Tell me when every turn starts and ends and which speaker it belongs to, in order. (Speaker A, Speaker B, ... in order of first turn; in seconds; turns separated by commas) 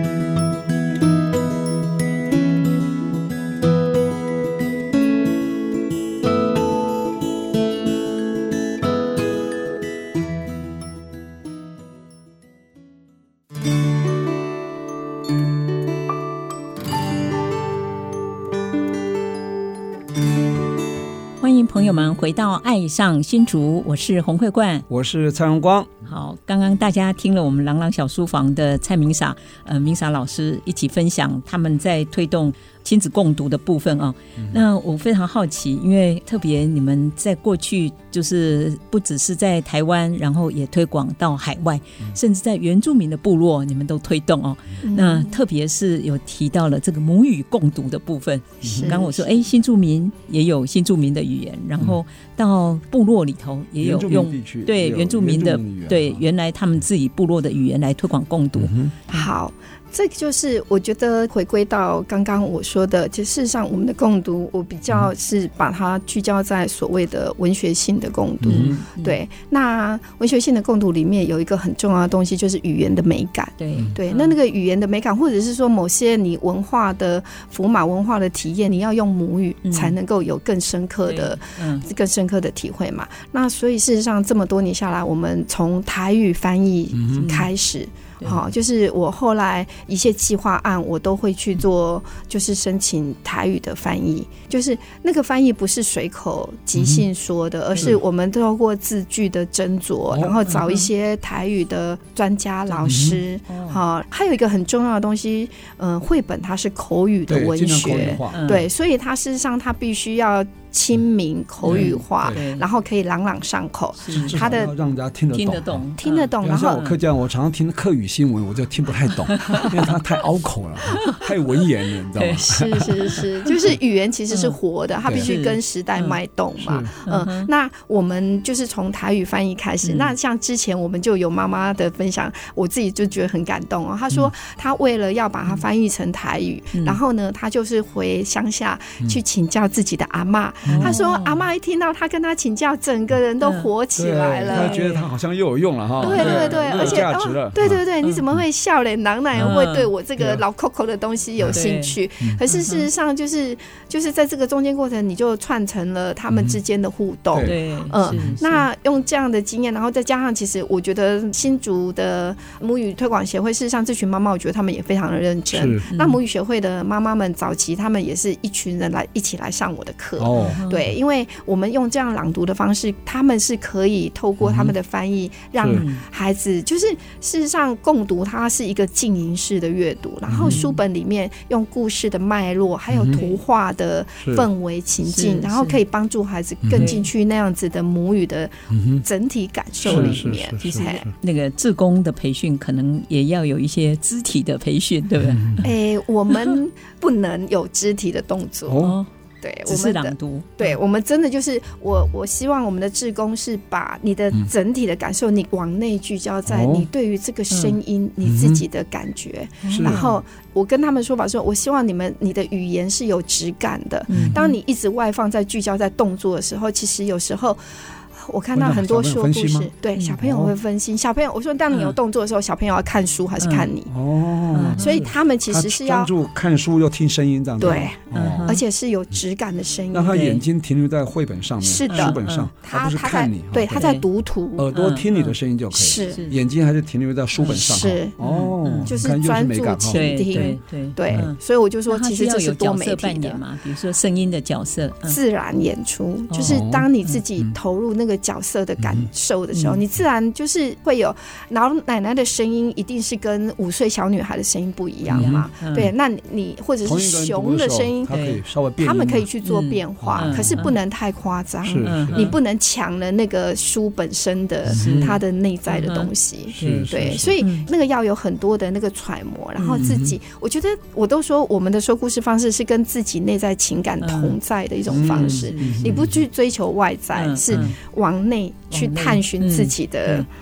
Speaker A: 21.4-24.9, Speaker B: 24.9-25.9, Speaker A: 26.1-59.3, Speaker C: 44.8-45.3, Speaker B: 48.6-49.0, Speaker C: 48.7-49.4, Speaker B: 53.8-56.2, Speaker B: 58.6-59.0, Speaker C: 59.1-114.7, Speaker B: 68.4-68.8, Speaker A: 68.5-69.2, Speaker A: 73.6-74.3, Speaker A: 79.7-80.0, Speaker A: 81.1-81.9, Speaker B: 86.9-87.3, Speaker A: 87.2-87.5, Speaker B: 96.8-97.0, Speaker A: 100.5-100.9, Speaker A: 102.7-103.8, Speaker B: 102.9-103.2, Speaker B: 107.3-108.6, Speaker A: 108.0-108.7, Speaker A: 111.6-112.7, Speaker B: 111.7-112.4, Speaker A: 114.0-114.6, Speaker B: 114.2-115.8, Speaker A: 115.3-117.0, Speaker C: 116.0-116.9, Speaker B: 116.4-122.8, Speaker A: 119.3-119.9, Speaker A: 120.9-121.3, Speaker A: 122.2-123.7, Speaker C: 122.5-144.8, Speaker A: 124.3-124.6, Speaker A: 125.1-126.2, Speaker B: 126.6-126.9, Speaker A: 127.0-127.5, Speaker A: 129.8-130.1, Speaker A: 136.7-137.0, Speaker B: 140.7-141.0, Speaker A: 140.7-141.4, Speaker A: 143.4-143.7, Speaker B: 144.0-147.8, Speaker A: 144.5-145.1, Speaker A: 146.0-147.0, Speaker C: 146.0-191.1, Speaker A: 149.4-149.9, Speaker A: 151.5-152.9, Speaker B: 157.3-158.4, Speaker A: 157.4-158.6, Speaker B: 165.5-165.8, Speaker A: 165.9-166.2, Speaker B: 170.2-170.6, Speaker A: 170.4-170.9, Speaker B: 174.4-174.7, Speaker B: 175.6-175.8, Speaker A: 175.7-176.0, Speaker B: 180.3-180.6, Speaker A: 180.4-180.8, Speaker B: 182.9-183.2, Speaker A: 183.1-183.4, Speaker B: 184.2-184.5, Speaker A: 185.1-185.8, Speaker B: 186.6-186.9, Speaker A: 186.8-187.1, Speaker B: 188.7-189.0, Speaker A: 189.8-195.7, Speaker B: 189.8-191.1, Speaker B: 195.2-195.7, Speaker C: 195.6-198.8, Speaker B: 198.7-199.0, Speaker A: 198.8-199.1, Speaker C: 199.4-217.6, Speaker A: 199.7-200.8, Speaker B: 206.5-206.9, Speaker A: 207.5-207.8, Speaker B: 208.2-208.6, Speaker A: 209.6-210.2, Speaker B: 209.7-210.0, Speaker A: 214.1-214.6, Speaker B: 214.1-214.4, Speaker C: 218.2-223.9, Speaker B: 218.6-220.5, Speaker A: 223.4-223.7, Speaker B: 223.9-228.5, Speaker A: 224.5-225.0, Speaker C: 224.8-226.1, Speaker C: 227.6-230.3, Speaker A: 227.6-228.6, Speaker B: 229.9-233.8, Speaker A: 230.1-230.4, Speaker C: 231.6-234.7, Speaker A: 231.9-232.5, Speaker A: 233.7-234.0, Speaker B: 234.6-240.5, Speaker A: 234.7-235.4, Speaker C: 235.7-236.2, Speaker A: 235.9-236.3, Speaker A: 237.4-238.9, Speaker C: 237.4-238.2, Speaker C: 238.8-243.4, Speaker A: 239.9-245.2, Speaker C: 245.1-258.1, Speaker A: 246.3-247.2, Speaker B: 246.5-247.5, Speaker B: 248.8-249.1, Speaker A: 249.5-249.8, Speaker B: 255.1-255.5, Speaker A: 255.1-255.9, Speaker B: 256.8-259.3, Speaker A: 258.1-258.4, Speaker C: 258.8-280.3, Speaker A: 259.4-260.8, Speaker B: 260.0-260.7, Speaker B: 261.6-262.3, Speaker A: 261.8-262.4, Speaker A: 264.7-267.7, Speaker B: 264.7-265.2, Speaker B: 266.6-267.3, Speaker A: 269.6-270.0, Speaker B: 269.8-270.1, Speaker A: 274.0-274.4, Speaker B: 274.9-276.2, Speaker A: 274.9-276.1, Speaker A: 277.1-277.8, Speaker B: 277.5-277.8, Speaker A: 278.7-280.3